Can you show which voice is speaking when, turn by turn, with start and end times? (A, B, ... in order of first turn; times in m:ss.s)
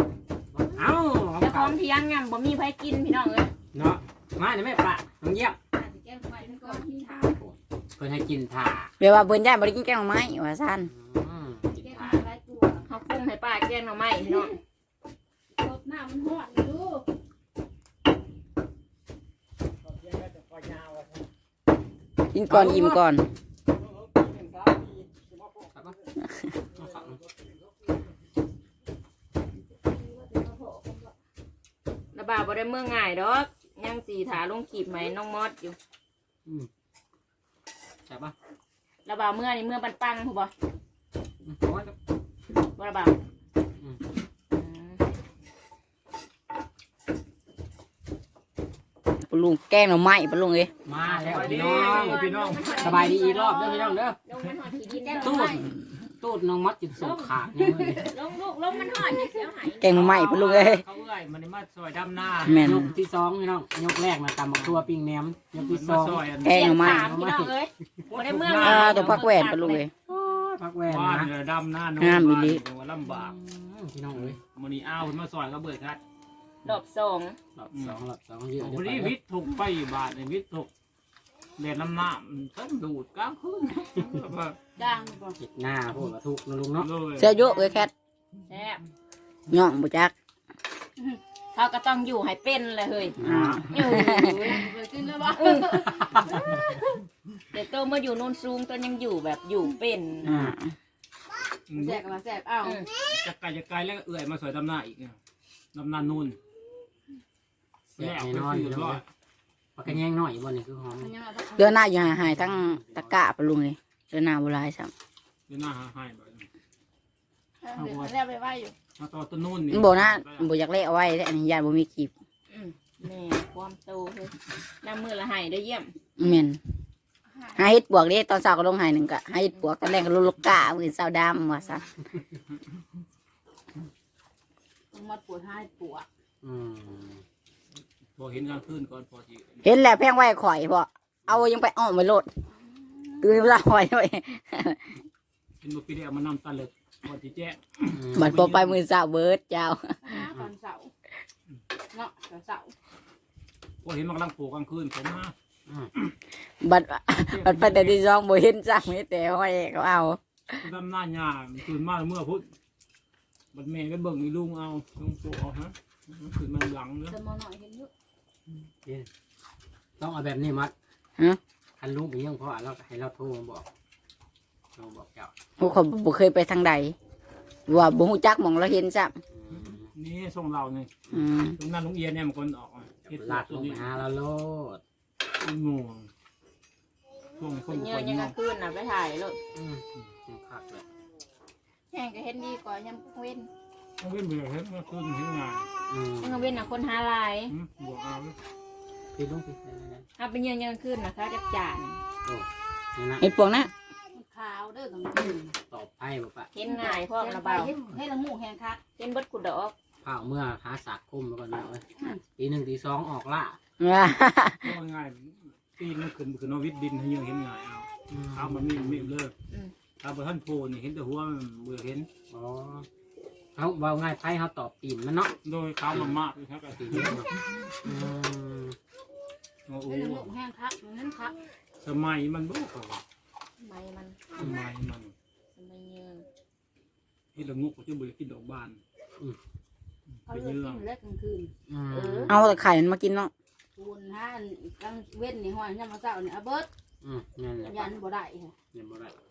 0:00.5-0:01.8 A
0:01.4-0:03.5 B
0:03.7-0:05.6 A
0:05.7-0:07.2 C
0:06.4-0:07.3 B
0:07.2-0:08.9 A
0:09.0-0:10.9 D
0:10.9-0:12.3 A
0:11.7-0:13.0 C
0:12.9-0:14.5 B
0:15.5-0:17.1 C
0:20.2-0:21.2 E
0:22.3-0:23.3 D
0:22.5-0:23.0 A
0:24.2-0:25.5 E
0:26.7-0:27.2 A
0:29.8-0:31.1 C
0:32.1-0:35.8 B
0:38.1-0:38.3 A
0:39.0-0:40.5 B
0:41.4-0:42.0 A
0:42.7-0:43.2 B
0:44.5-0:45.0 B
0:49.2-0:50.7 D
0:50.8-0:52.2 A
0:51.0-0:53.1 E
0:51.4-0:55.5 B
0:52.8-0:54.2 A
0:55.0-0:55.7 C
0:55.2-0:58.1 A
0:57.0-0:57.3 B
0:58.0-1:00.4 B
0:59.8-1:00.8 D
0:59.9-1:02.8 E
1:02.4-1:02.9 D
1:02.6-1:07.5 A
1:04.5-1:04.9 E
1:05.6-1:06.7 E
1:06.4-1:07.1 D
1:06.4-1:09.8 B
1:08.1-1:09.3 E
1:08.6-1:09.9 D
1:10.1-1:11.3 A
1:10.9-1:13.4 E
1:12.0-1:12.6 D
1:13.0-1:14.4 A
1:14.1-1:16.0 E
1:16.6-1:17.4 B
1:17.6-1:19.2 A
1:17.7-1:18.0 E
1:18.6-1:20.7 E
1:21.6-1:24.6 E
1:24.8-1:25.4 C
1:25.4-1:26.9 A
1:26.8-1:27.4 E
1:27.2-1:27.9 D
1:27.4-1:27.8 C
1:28.5-1:28.8 B
1:29.5-1:30.1 D
1:31.5-1:33.2 B
1:33.2-1:33.8 A
1:33.2-1:34.3 D
1:33.7-1:34.6 B
1:33.9-1:36.1 C
1:35.4-1:35.8 B
1:35.9-1:36.6 A
1:37.5-1:40.4 B
1:40.2-1:40.6 A
1:40.4-1:40.7 D
1:41.7-1:42.0 E
1:41.8-1:42.8 C
1:43.0-1:45.2 E
1:45.7-1:46.4 E
1:47.9-1:49.0 A
1:48.0-1:49.0 E
1:49.8-1:51.2 A
1:51.0-1:51.8 C
1:51.5-1:54.9 D
1:52.0-1:53.2 A
1:55.5-1:56.5 E
1:57.6-1:58.8 C
1:57.7-1:58.2 E
1:59.0-2:00.5 E
1:59.7-2:02.1 D
2:02.5-2:05.9 B
2:06.2-2:06.6 D
2:07.6-2:11.8 D
2:14.9-2:16.1 C
2:16.4-2:17.2 A
2:18.2-2:19.6 E
2:19.6-2:22.3 D
2:22.9-2:23.4 C
2:23.2-2:24.9 D
2:25.6-2:28.8 E
2:27.9-2:28.5 A
2:28.1-2:30.2 D
2:30.0-2:30.9 C
2:31.9-2:32.7 C
2:33.8-2:35.3 E
2:36.6-2:40.6 D
2:37.3-2:38.0 E
2:40.6-2:42.5 E
2:43.5-2:47.2 E
2:47.0-2:47.9 C
2:50.0-2:50.7 A
2:51.8-2:53.7 A
2:54.8-2:55.3 A
2:55.6-2:57.0 D
2:57.7-2:59.2 D
2:59.3-2:59.9 A
2:59.5-3:01.0 E
3:01.1-3:01.6 D
3:01.6-3:03.9 E
3:03.0-3:04.8 A
3:05.4-3:06.1 E
3:07.4-3:08.3 E
3:07.7-3:09.4 B
3:09.6-3:10.8 A
3:11.9-3:13.5 B
3:14.0-3:15.7 E
3:15.9-3:16.7 A
3:16.2-3:17.6 B
3:17.5-3:18.4 E
3:19.1-3:20.0 A
3:20.2-3:22.0 B
3:22.2-3:23.3 A
3:23.2-3:23.7 D
3:24.1-3:25.6 C
3:25.7-3:26.5 A
3:26.5-3:27.7 B
3:26.6-3:28.8 C
3:29.0-3:29.8 B
3:30.0-3:33.6 A
3:32.0-3:32.2 C
3:33.8-3:34.8 D
3:34.6-3:39.3 E
3:38.1-3:39.2 A
3:40.0-3:42.1 E
3:42.3-3:42.9 A
3:43.6-3:45.3 A
3:45.4-3:47.9 E
3:45.9-3:46.2 A
3:46.8-3:47.3 A
3:47.8-3:48.8 A
3:49.7-3:50.3 E
3:49.8-3:51.4 C
3:51.8-3:53.0 E
3:53.6-3:54.2 B
3:54.4-3:55.1 E
3:55.6-3:56.3 B
3:57.3-3:58.8 E
4:00.2-4:00.8 E
4:00.3-4:01.5 C
4:01.7-4:02.6 A
4:01.9-4:02.3 B
4:02.3-4:03.3 D
4:03.8-4:06.7 C
4:07.0-4:08.0 A
4:07.6-4:08.6 C
4:08.7-4:09.2 A